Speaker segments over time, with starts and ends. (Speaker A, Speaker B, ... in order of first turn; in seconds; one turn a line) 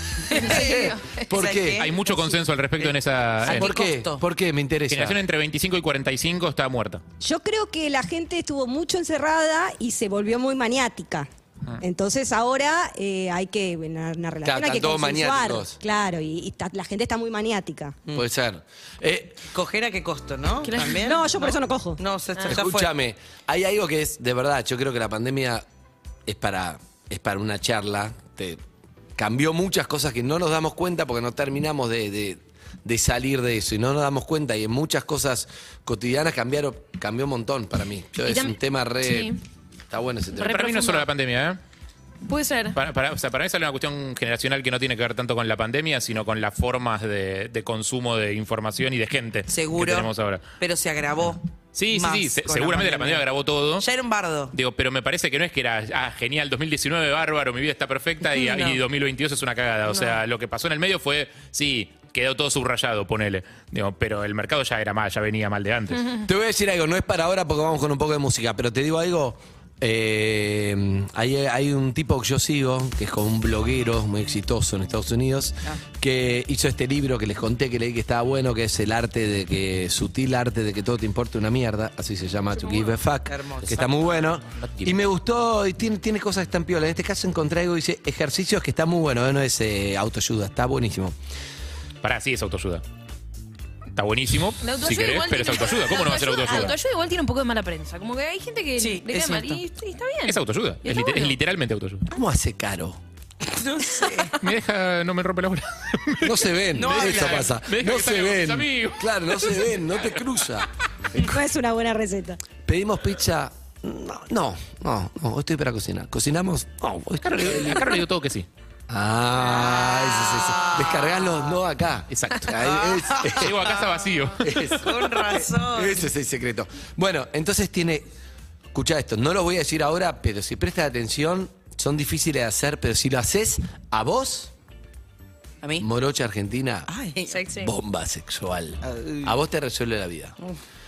Speaker A: 0.3-1.9
Speaker B: 0.3-4.2
Speaker C: 0.3-1.2
Speaker D: 1.8-3.8
Speaker A: 3.5-5.2
Speaker D: 4.9-7.0
Speaker E: 7.2-11.3
Speaker E: 11.8-18.0
Speaker A: 14.4-15.8
Speaker A: 18.1-19.4
Speaker B: 19.5-21.3
Speaker C: 20.6-21.6
Speaker E: 21.1-22.0
Speaker B: 22.0-22.9
Speaker C: 22.4-22.6
Speaker A: 22.5-25.6
Speaker A: 26.3-28.6
Speaker A: 29.2-39.3
Speaker C: 38.2-39.4
Speaker A: 39.9-40.7
Speaker C: 40.4-41.1
Speaker D: 40.4-41.6
Speaker C: 42.3-42.8
Speaker D: 42.7-50.5
Speaker B: 49.5-53.3
Speaker D: 51.8-53.9
Speaker B: 53.8-54.5
Speaker D: 54.5-66.1
Speaker B: 58.5-58.8
Speaker A: 66.2-91.2
Speaker B: 83.3-83.7
Speaker D: 83.6-85.0
Speaker D: 92.0-92.8
Speaker D: 93.9-96.8
Speaker C: 94.6-101.4
Speaker B: 98.8-99.6
Speaker D: 100.3-102.1
Speaker A: 102.1-103.0
Speaker B: 103.6-104.3
Speaker D: 104.4-109.7
Speaker A: 106.2-111.3
Speaker B: 106.8-107.5
Speaker E: 111.2-112.4
Speaker A: 112.7-117.8
Speaker D: 117.2-118.5
Speaker A: 118.9-123.5
Speaker B: 119.6-121.4
Speaker D: 122.1-124.5
Speaker B: 123.1-123.7
Speaker A: 124.4-128.1
Speaker B: 124.8-126.0
Speaker A: 128.7-134.5
Speaker A: 135.8-136.9
Speaker B: 136.9-137.4
Speaker C: 137.3-137.7
Speaker A: 137.6-140.3
Speaker B: 138.8-139.3